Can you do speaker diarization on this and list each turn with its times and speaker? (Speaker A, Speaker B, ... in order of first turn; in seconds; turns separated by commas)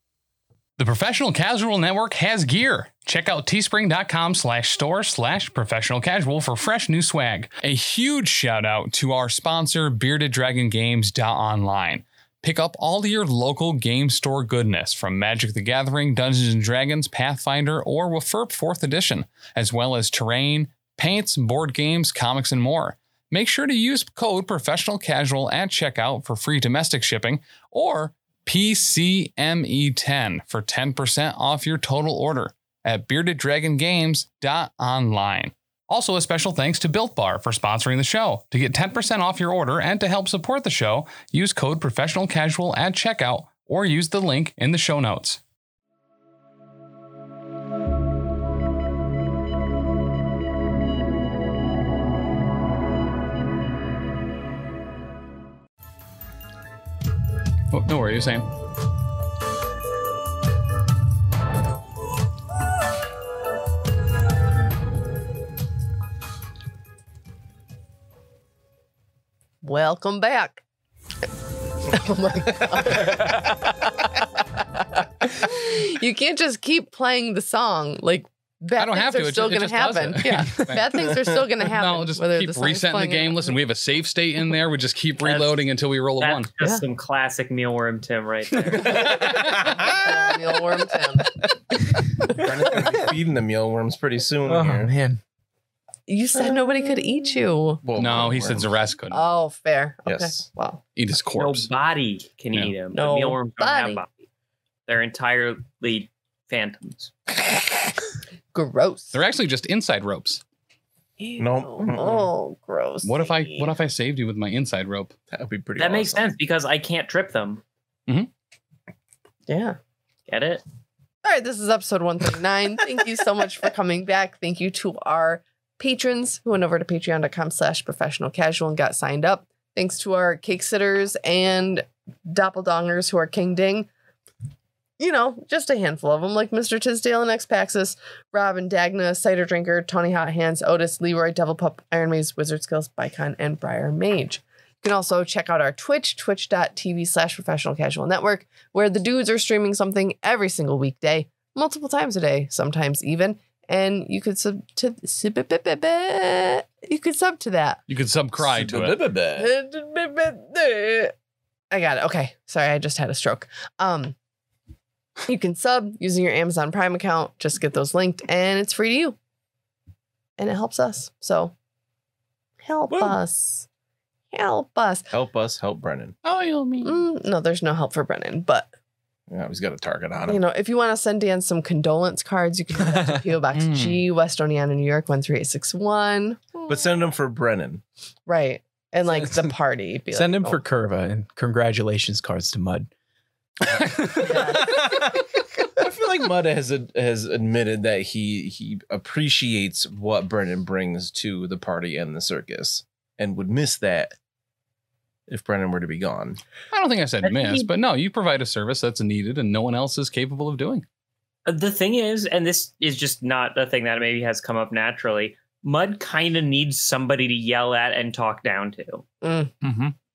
Speaker A: 0.8-45.4, Speaker A: 57.7-58.5, Speaker B: 69.6-70.6, Speaker B: 71.9-73.7, Speaker B: 75.2-83.6, Speaker A: 78.8-86.5, Speaker C: 85.2-85.6, Speaker C: 86.2-89.1, Speaker D: 88.8-90.3, Speaker B: 89.8-91.4, Speaker D: 92.3-94.9, Speaker E: 92.7-93.0, Speaker E: 94.5-95.2, Speaker B: 96.1-97.8, Speaker D: 97.8-98.7, Speaker A: 98.0-99.2, Speaker B: 99.1-100.8, Speaker D: 100.1-100.5, Speaker A: 101.0-101.7, Speaker C: 101.3-104.1, Speaker B: 102.9-104.0, Speaker C: 104.9-107.1, Speaker B: 108.5-109.2, Speaker A: 109.1-110.4, Speaker B: 111.2-113.7, Speaker D: 111.4-112.3, Speaker A: 113.0-115.1, Speaker D: 115.3-116.2, Speaker C: 115.8-117.6, Speaker B: 119.5-119.8, Speaker C: 120.3-120.6, Speaker B: 121.2-133.9, Speaker B: 135.0-157.8, Speaker A: 157.9-159.0, Speaker D: 158.4-159.5, Speaker B: 159.3-161.1, Speaker B: 161.7-164.2, Speaker B: 165.2-169.2, Speaker B: 170.4-171.5, Speaker B: 172.6-173.7, Speaker B: 174.3-175.1, Speaker D: 175.1-176.2, Speaker A: 176.2-177.0, Speaker B: 176.8-178.7, Speaker D: 179.3-180.4, Speaker B: 180.3-186.9, Speaker A: 183.5-184.0, Speaker D: 186.7-187.8, Speaker B: 188.3-190.6, Speaker E: 189.2-189.5, Speaker E: 190.1-192.9, Speaker E: 193.8-194.8, Speaker B: 194.2-194.8, Speaker D: 194.6-195.2, Speaker D: 195.8-204.2, Speaker D: 205.3-206.4, Speaker A: 206.7-210.8, Speaker C: 207.3-207.7, Speaker C: 211.5-219.0, Speaker B: 219.2-219.5, Speaker A: 219.6-219.9